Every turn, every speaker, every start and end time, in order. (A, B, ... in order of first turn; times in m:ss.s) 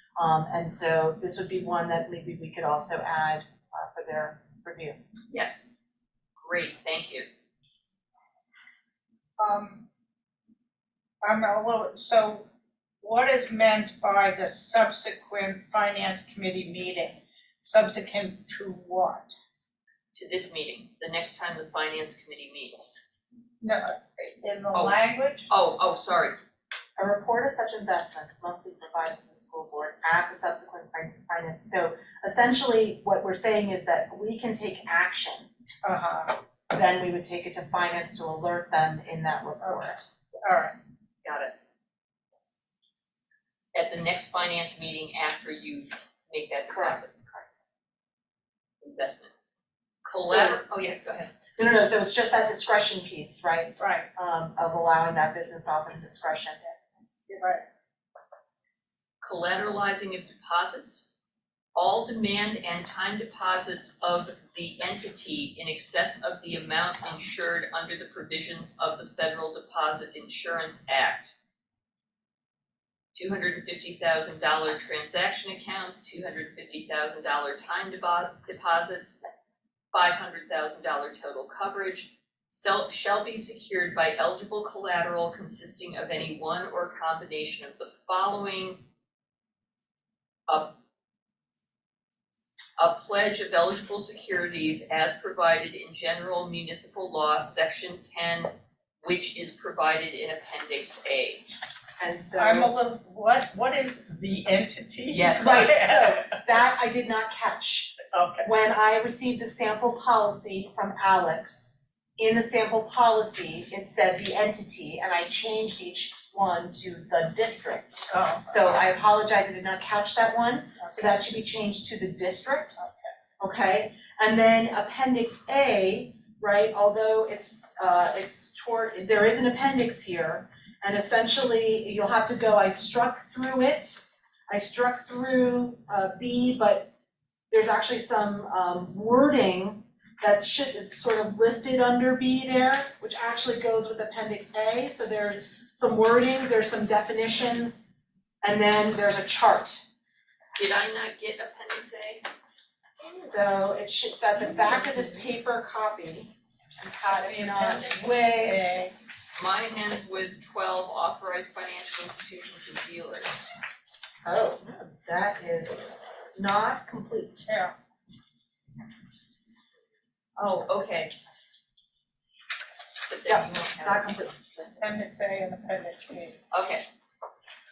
0:00.2-0:05.0 A
0:05.3-0:05.7 B
0:06.4-0:07.2 B
0:09.4-0:09.8 C
0:11.2-0:12.4 C
0:13.0-0:19.3 C
0:20.1-0:23.0 B
0:23.6-0:25.5 C
0:25.5-0:26.4 B
0:27.0-0:35.5 A
0:35.8-0:36.3 C
0:36.7-0:40.0 A
0:39.6-0:40.8 C
0:41.2-0:41.5 B
0:43.7-0:47.4 B
0:46.7-0:47.0 A
0:48.8-0:49.3 B
0:50.0-0:51.2 B
0:50.2-0:56.8 A
0:53.8-0:54.1 C
0:57.3-0:57.6 C
0:59.2-1:01.1 B
1:01.7-1:11.3 B
1:13.1-1:19.2 B
1:19.9-1:28.8 B
1:30.5-1:30.8 B
1:32.8-1:41.5 B
1:42.0-1:42.7 A
1:42.4-1:46.4 C
1:45.1-1:45.4 B
1:45.4-2:02.8 A
1:48.1-1:48.5 C
1:58.1-1:58.8 C
2:00.8-2:01.2 C
2:02.8-2:03.1 C
2:03.4-2:16.9 A
2:17.5-2:27.9 A
2:28.4-2:29.8 A
2:30.6-2:32.2 B
2:33.1-2:38.6 A
2:37.1-2:38.9 C
2:39.4-2:43.5 B
2:44.2-2:47.5 A
2:47.5-2:47.7 C
2:50.4-2:51.1 B
2:53.1-2:54.2 B
2:53.2-2:54.8 A
2:54.8-2:56.4 C
2:56.5-2:56.8 B